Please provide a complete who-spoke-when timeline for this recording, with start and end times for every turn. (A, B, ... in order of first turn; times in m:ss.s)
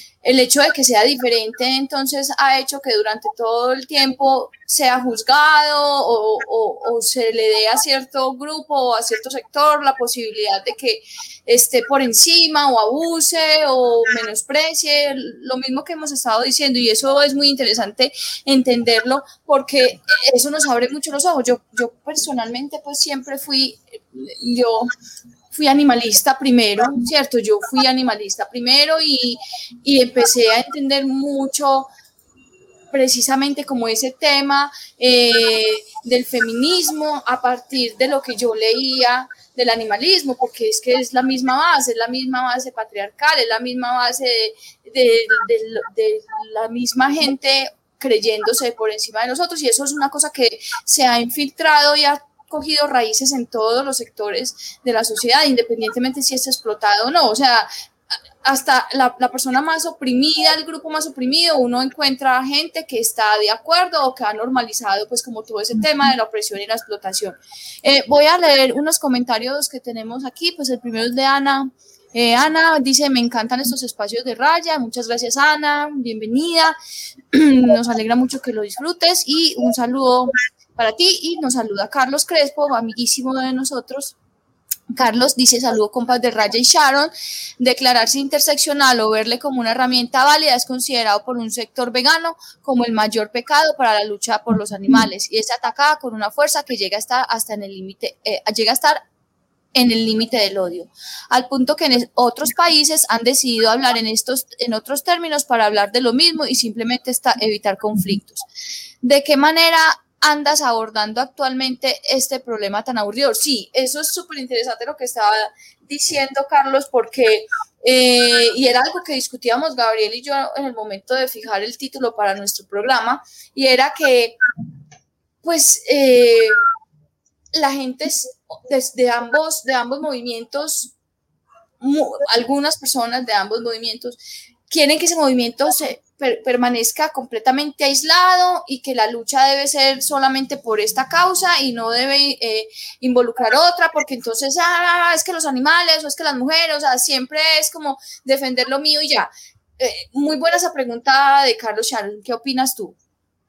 0:00.2-0:24.9 A
0:25.5-0:31.9 A
0:32.9-0:57.7 A
0:58.4-1:16.8 A
1:17.3-1:24.2 A
1:24.9-1:39.0 A
1:39.7-1:48.5 A
1:49.0-2:04.4 A
2:05.4-2:06.6 A
2:07.5-2:10.9 A
2:11.8-2:33.0 A